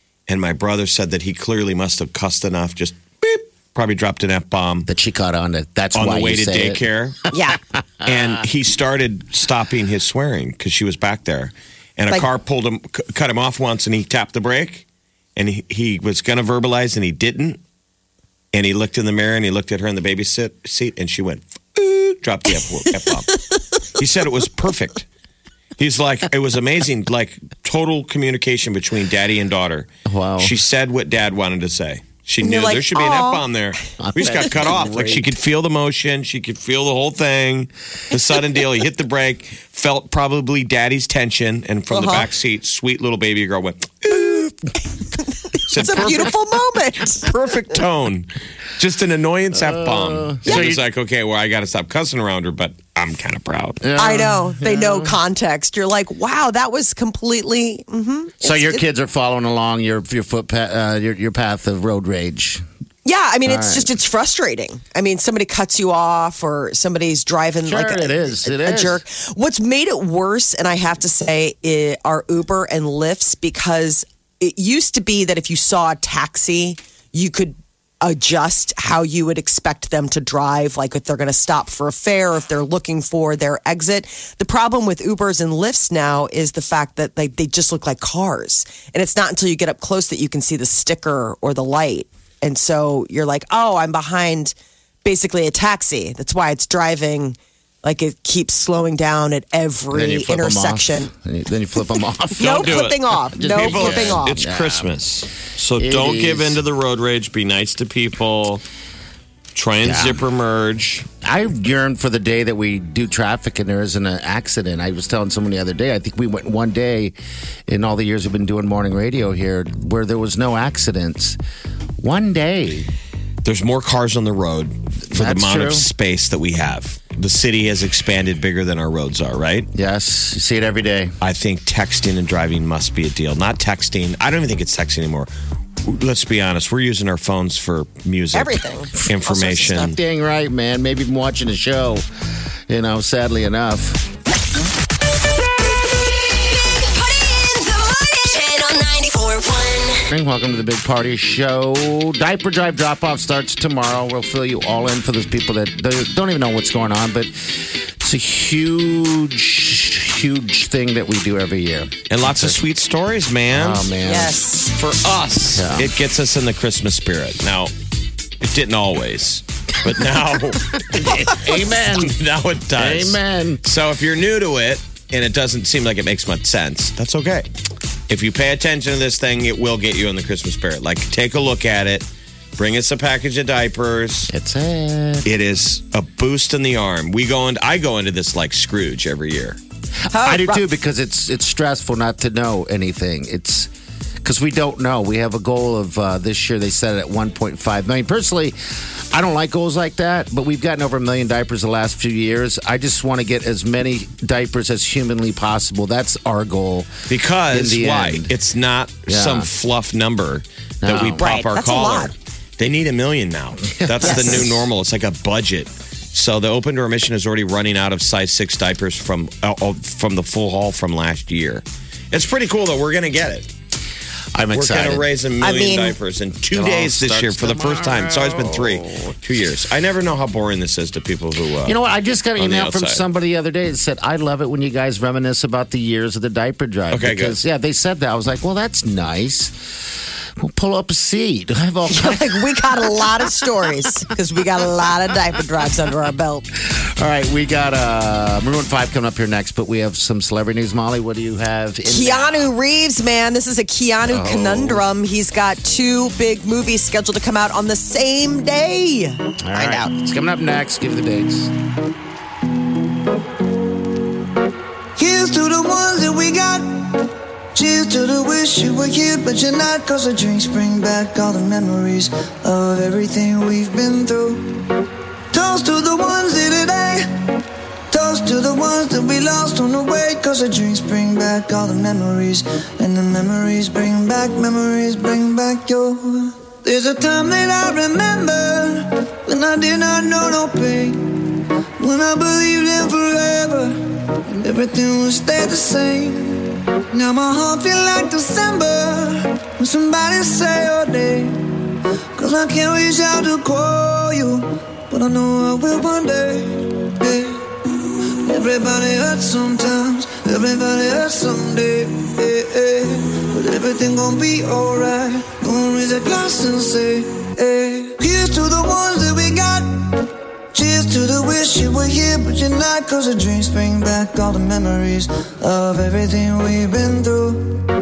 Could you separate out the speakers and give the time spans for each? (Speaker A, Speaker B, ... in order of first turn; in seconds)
Speaker A: 0.3-4.9, 5.9-7.3, 8.0-14.8, 15.3-17.6, 18.5-25.1, 25.8-44.5, 45.6-46.4, 47.1-53.8, 102.4-108.6, 109.5-111.1, 123.4-129.7, 131.2-135.3, 135.8-140.0, 162.1-163.8, 164.8-167.7, 168.4-177.5, 178.1-184.3, 185.2-189.6, 207.1-223.5, 224.5-231.8, 232.4-233.0, 236.9-237.3
Speaker B: 4.8-6.8, 30.1-30.6, 34.0-35.3, 49.5-50.8, 53.8-55.1, 58.4-62.6, 63.5-63.9, 67.7-69.0, 99.9-104.9, 105.8-106.6, 109.8-110.2, 111.2-117.1, 117.7-121.4, 122.0-122.9, 125.1-125.9, 129.7-131.1, 139.2-142.1, 142.7-144.0, 150.1-162.6, 163.5-164.4, 165.5-165.9, 170.8-172.2, 172.7-173.6, 184.3-185.3, 190.2-193.7, 194.2-198.6, 199.1-206.9, 207.5-208.3, 209.1-209.5, 210.8-211.2, 213.8-214.7, 224.3-225.1, 226.5-229.2, 231.6-239.6, 240.4-243.3, 246.6-252.5, 254.1-254.8, 259.4-261.5
Speaker C: 7.3-7.6, 32.4-33.4, 41.9-42.2, 45.7-47.6, 54.0-58.8, 63.0-101.1, 102.3-104.4, 138.3-139.9, 164.0-164.9, 190.1-190.6, 211.2-212.1, 214.0-214.4, 225.4-225.9, 241.9-246.4, 251.8-259.9
Speaker D: 147.1-149.9
Speaker E: 264.9-274.6, 275.3-277.1, 277.9-291.2, 291.8-301.5, 302.1-327.6